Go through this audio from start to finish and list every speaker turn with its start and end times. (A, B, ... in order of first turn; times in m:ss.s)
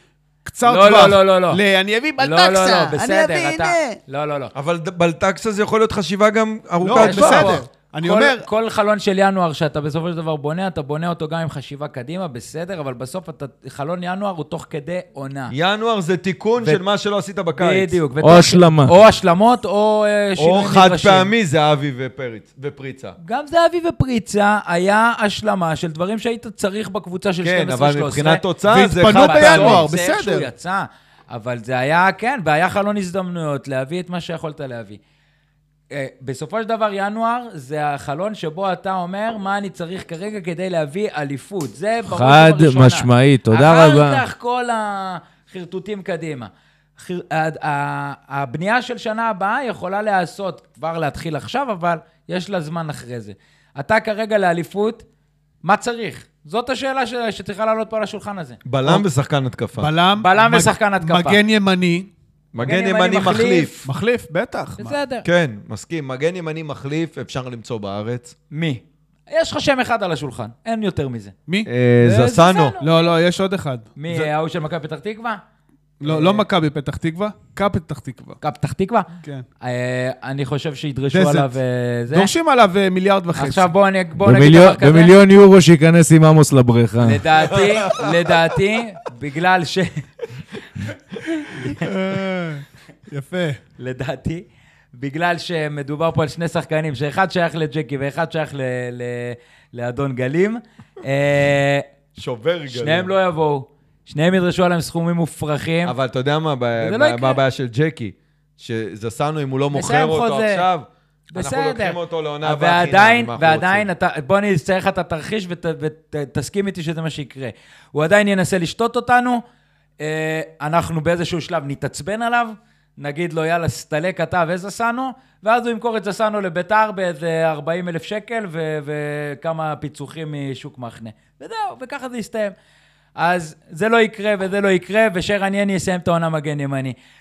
0:00.4-0:02.9 A
0:00.6-0:01.6 B
0:02.2-0:04.5 B
0:02.6-0:04.0 C
0:04.5-0:07.6 D
0:06.8-0:08.4 A
0:06.9-0:15.5 B
0:15.5-0:18.0 D
0:17.6-0:21.3 B
0:18.2-0:18.9 C
0:20.4-0:23.2 D
0:23.2-0:28.4 B
0:27.4-0:29.9 D
0:28.7-0:30.5 A
0:29.0-0:35.0 B
0:35.9-0:55.0 B
0:42.0-0:44.2 C
0:55.6-0:58.6 B
0:58.6-0:59.9 D
0:59.8-1:02.1 A
1:00.2-1:01.4 B
1:02.5-1:03.7 D
1:02.6-1:03.9 B
1:03.8-1:05.0 A
1:04.8-1:05.3 B
1:05.2-1:08.3 D
1:08.5-1:11.3 B
1:11.6-1:12.7 D
1:12.0-1:13.1 B
1:12.8-1:14.3 A
1:14.0-1:15.4 B
1:16.0-1:18.4 A
1:16.0-1:16.5 B
1:18.4-1:19.1 B
1:19.6-1:22.3 B
1:21.1-1:21.5 A
1:22.1-1:23.7 A
1:23.4-1:25.2 B
1:24.2-1:27.2 C
1:27.0-1:30.0 B
1:27.4-1:28.4 D
1:30.6-1:31.9 B
1:31.6-1:33.6 A
1:33.8-1:34.4 B
1:34.9-1:41.8 B
1:42.2-1:43.1 D
1:42.7-1:45.9 B
1:45.8-1:53.9 D
1:46.8-1:47.4 B
1:49.7-1:50.6 B
1:51.3-1:59.4 B
2:00.0-2:12.5 B
2:13.2-2:16.9 B